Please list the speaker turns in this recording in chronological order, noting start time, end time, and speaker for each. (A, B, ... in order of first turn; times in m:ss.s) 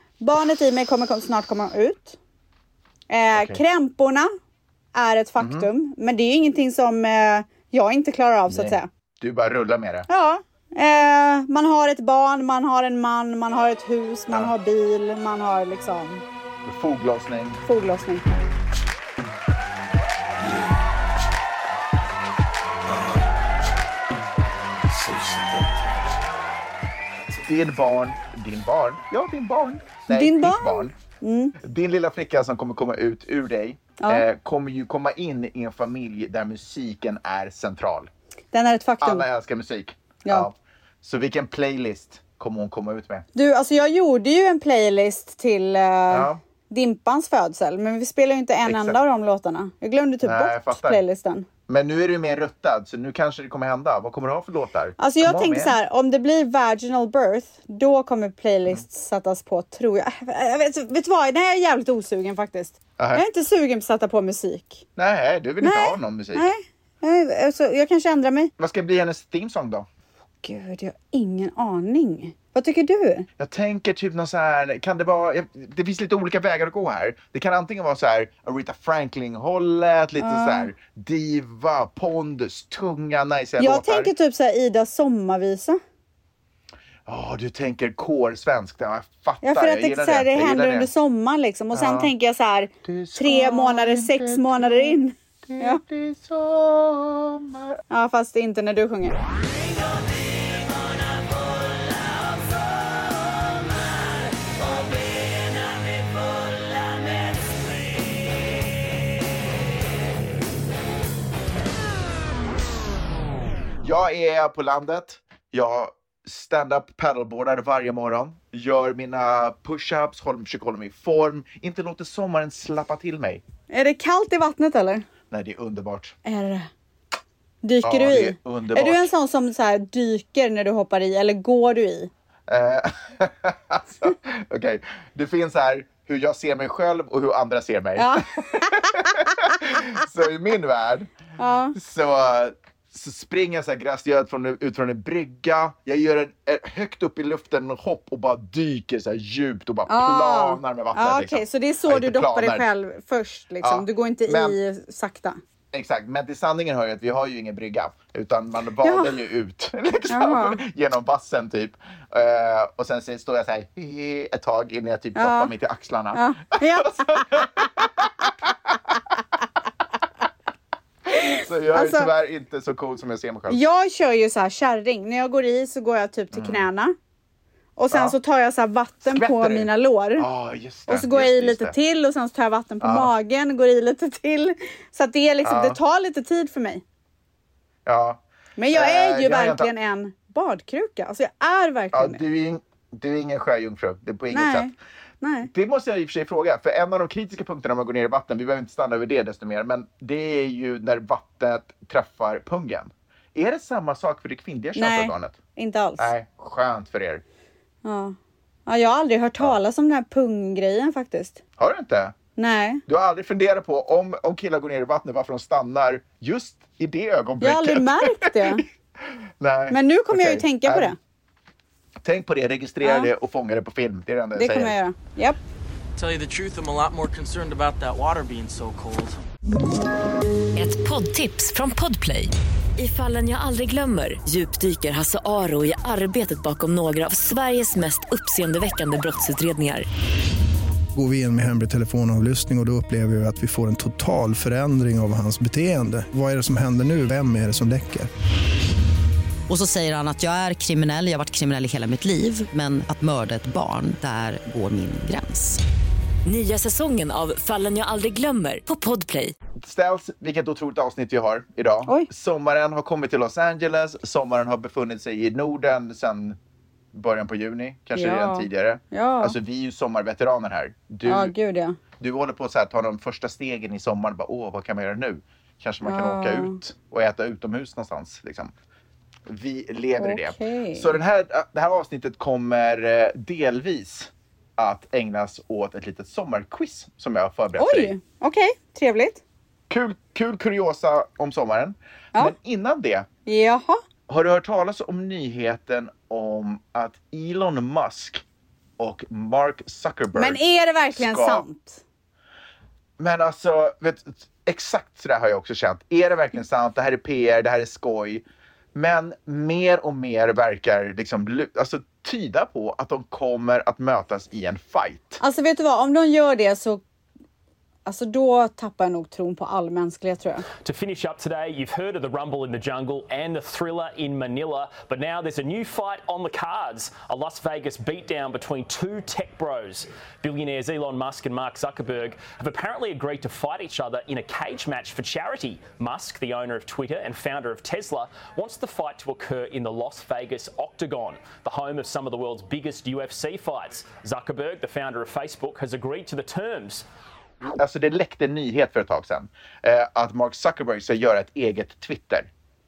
0:00.2-0:02.2 A
0:03.1-0:04.3 A
0:03.3-0:03.6 B
0:04.9-0:08.9 A
0:05.4-0:05.7 B
0:08.5-0:10.1 B
0:10.1-0:16.2 A
0:16.6-0:17.6 B
0:17.6-0:18.2 A
0:27.4-0:30.9 B
0:30.1-0:31.5 A
0:31.6-0:38.1 B
0:34.0-0:34.2 A
0:38.5-0:39.2 A
0:39.0-0:43.2 B
0:43.3-0:51.5 A
0:46.1-0:46.4 B
0:48.6-0:49.0 B
0:50.2-0:51.0 B
0:51.7-0:55.8 B
0:55.0-1:04.8 A
1:03.0-1:03.2 B
1:05.0-1:06.5 B
1:05.6-1:08.5 A
1:08.6-1:09.8 B
1:10.4-1:13.3 A
1:13.4-1:24.1 B
1:20.2-1:20.7 A
1:23.6-1:25.8 A
1:27.1-1:30.9 B
1:29.4-1:35.8 A
1:31.7-1:32.1 B
1:32.8-1:37.8 B
1:37.9-1:39.2 A
1:53.8-2:03.4 B
2:03.7-2:05.0 A
2:05.3-2:06.1 B
2:06.2-2:06.7 A
2:07.6-2:12.1 A
2:07.8-2:09.1 B
2:12.5-2:21.1 B
2:18.0-2:18.2 A
2:21.4-2:21.8 A
2:21.7-2:32.6 B
2:29.9-2:35.4 A
2:33.6-2:34.6 B
2:35.7-2:48.1 B
2:38.8-2:39.2 A
2:40.1-2:40.6 A
2:45.1-2:45.5 A
2:46.1-2:47.6 A
2:51.1-2:53.6 B
2:51.1-2:52.1 A
2:53.5-2:57.0 A
2:56.3-2:56.7 B
2:57.8-3:00.3 A
2:57.9-2:58.2 B
2:59.1-3:01.7 B
3:00.9-3:06.8 A
3:02.8-3:03.1 B
3:05.4-3:05.8 B
3:07.8-3:08.2 B
3:08.6-3:12.2 A
3:08.7-3:09.7 B
3:11.9-3:14.7 B
3:14.3-3:15.5 A
3:15.5-3:25.4 B
3:24.8-3:26.1 A
3:26.0-3:27.2 B
3:27.8-3:28.2 A
3:28.7-3:31.4 A
3:31.6-3:32.1 B
3:32.4-3:32.8 A
3:32.9-3:38.6 B
3:37.4-3:38.6 A
3:39.4-3:40.9 B
3:39.7-3:41.0 A
3:42.0-3:44.8 B
3:42.8-3:43.1 A
3:44.3-3:45.4 A
3:46.0-3:49.1 C
3:50.6-3:59.8 D
4:00.9-4:08.1 E
4:09.5-4:15.6 F
4:16.2-4:19.3 D
4:19.6-4:26.4 B
4:26.9-4:31.3 B
4:27.9-4:29.4 A
4:31.0-4:31.8 A
4:32.0-4:38.5 B
4:35.8-4:36.6 A
4:39.3-4:47.9 B
4:40.0-4:41.0 A
4:47.6-4:49.2 A
4:49.7-4:53.1 B
4:53.2-4:53.8 A
4:54.1-4:58.2 B
4:58.8-5:00.4 B
5:00.1-5:01.8 A
5:00.9-5:01.4 B
5:03.0-5:08.2 B
5:08.7-5:15.2 B
5:15.2-5:16.8 A
5:17.8-5:20.5 A
5:20.6-5:46.8 G
5:47.6-5:52.3 B